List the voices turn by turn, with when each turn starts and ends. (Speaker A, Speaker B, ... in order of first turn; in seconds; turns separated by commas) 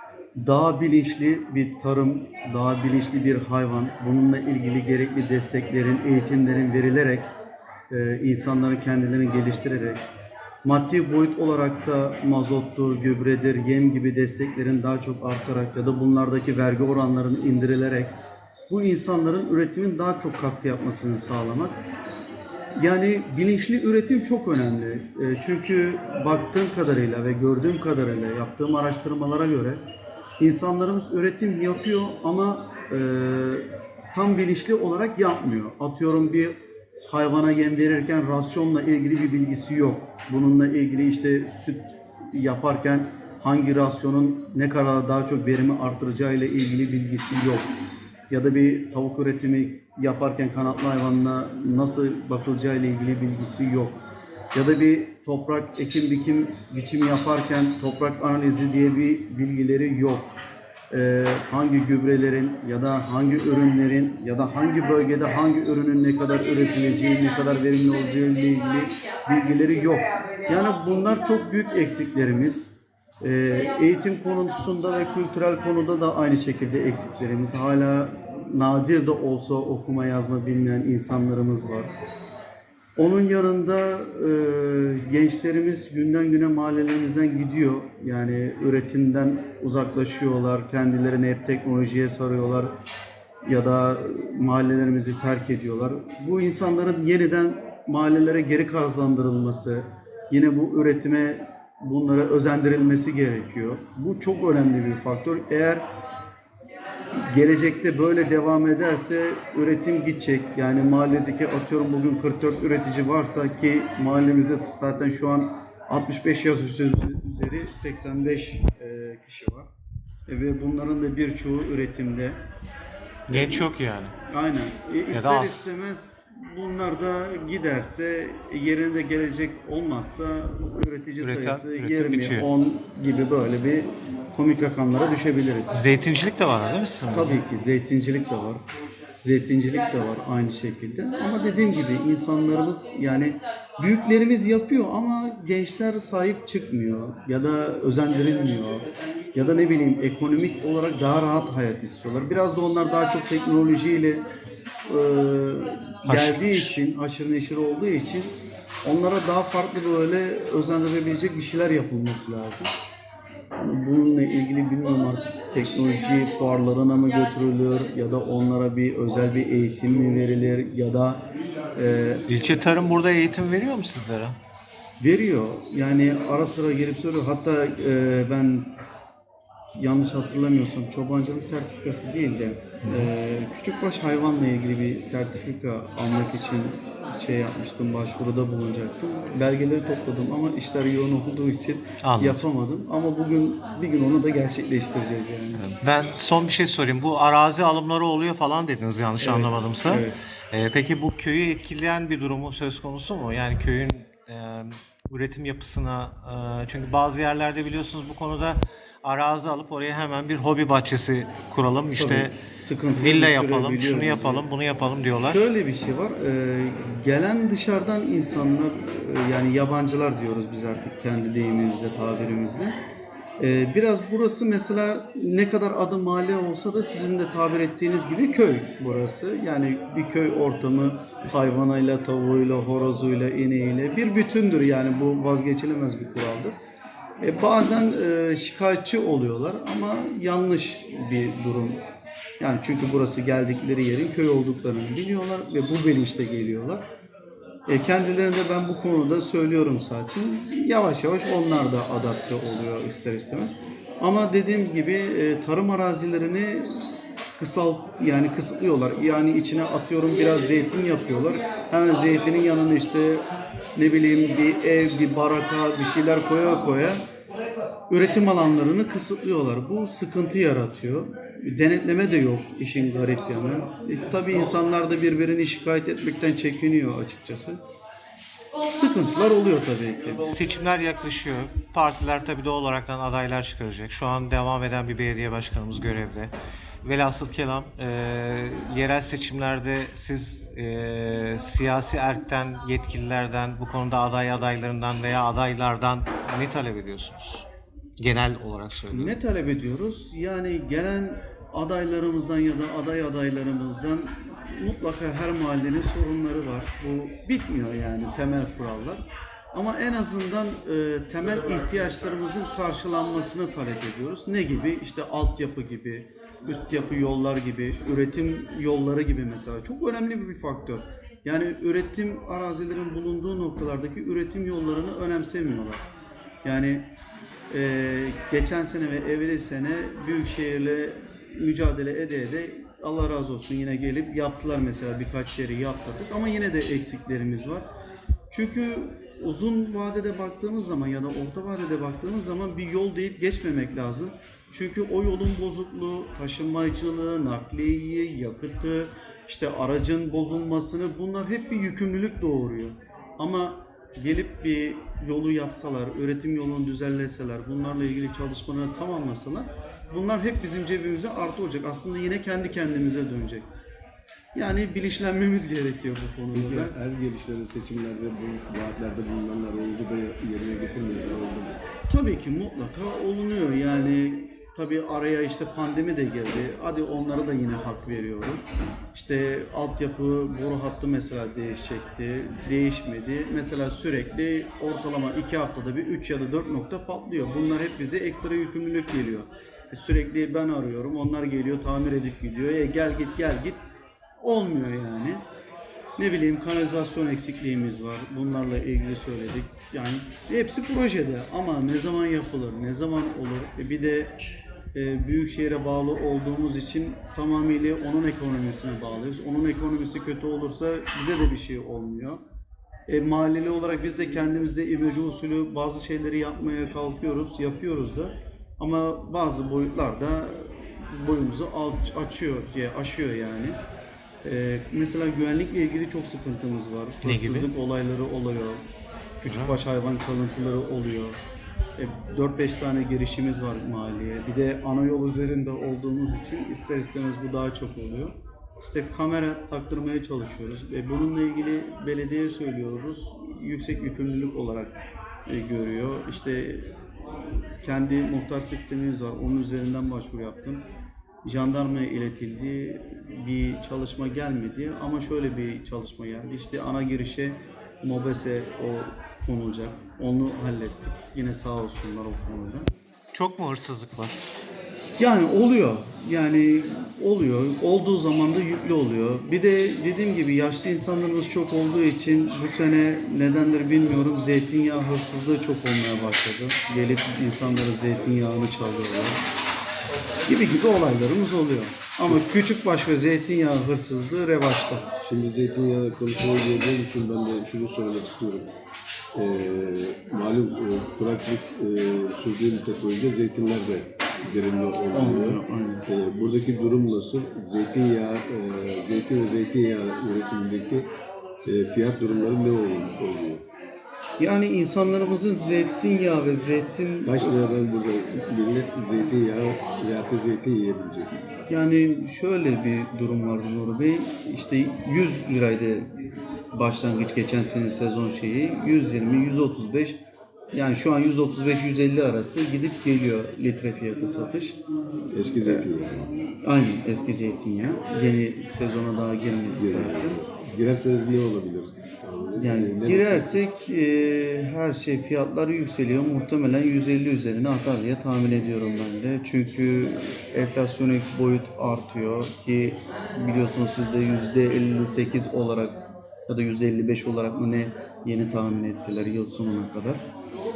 Speaker A: 0.4-7.3, Speaker A: 7.9-10.0, Speaker A: 10.6-18.1, Speaker A: 18.7-21.8, Speaker A: 22.8-29.8, Speaker A: 30.4-47.7, Speaker A: 48.3-54.0, Speaker A: 54.5-60.3, Speaker A: 60.9-81.9, Speaker A: 83.0-92.7, Speaker A: 93.5-105.9, Speaker A: 107.1-119.7, Speaker A: 120.3-122.4, Speaker B: 123.3-124.2, Speaker A: 123.3-123.7, Speaker A: 124.2-135.8, Speaker B: 125.1-125.7, Speaker B: 131.2-132.5, Speaker B: 135.7-137.4, Speaker A: 137.1-138.6, Speaker A: 139.2-154.2, Speaker A: 154.9-158.3, Speaker B: 156.0-156.8, Speaker A: 158.8-162.7, Speaker A: 163.6-171.2, Speaker A: 171.7-172.2, Speaker B: 172.3-174.4, Speaker A: 175.0-178.7, Speaker A: 179.8-195.7, Speaker B: 182.8-183.1, Speaker B: 192.0-192.4, Speaker B: 195.6-212.4, Speaker A: 199.2-200.2, Speaker A: 211.9-214.5, Speaker B: 213.0-215.5, Speaker A: 215.2-222.8, Speaker A: 223.4-236.5, Speaker A: 237.2-241.8, Speaker A: 242.4-246.8, Speaker A: 247.7-256.8, Speaker A: 257.4-263.2, Speaker A: 263.8-267.0, Speaker A: 267.9-277.6, Speaker A: 278.7-280.3, Speaker B: 280.3-286.3, Speaker B: 286.8-297.5, Speaker B: 298.0-299.1, Speaker A: 298.9-325.8, Speaker A: 326.4-326.9, Speaker A: 327.5-337.6, Speaker A: 338.3-363.5, Speaker A: 364.4-366.8, Speaker C: 366.3-371.6, Speaker A: 371.9-393.6, Speaker A: 394.2-395.2, Speaker A: 396.0-404.1, Speaker A: 404.7-412.2, Speaker A: 412.9-423.6, Speaker A: 424.2-428.6, Speaker B: 427.0-427.5, Speaker A: 429.2-431.2, Speaker B: 429.3-429.6, Speaker A: 431.8-444.8, Speaker A: 445.3-450.6, Speaker A: 451.2-462.7, Speaker B: 463.1-464.2, Speaker A: 465.0-479.2, Speaker A: 480.3-484.9, Speaker C: 485.0-488.5, Speaker C: 489.1-500.9, Speaker A: 494.9-495.9, Speaker C: 501.4-503.4, Speaker A: 504.2-507.4, Speaker C: 507.1-511.1, Speaker A: 511.5-515.9, Speaker A: 516.5-520.0, Speaker A: 520.5-524.6, Speaker C: 525.1-526.1, Speaker A: 525.4-525.7, Speaker A: 526.4-530.2, Speaker C: 529.5-533.4, Speaker A: 532.4-550.0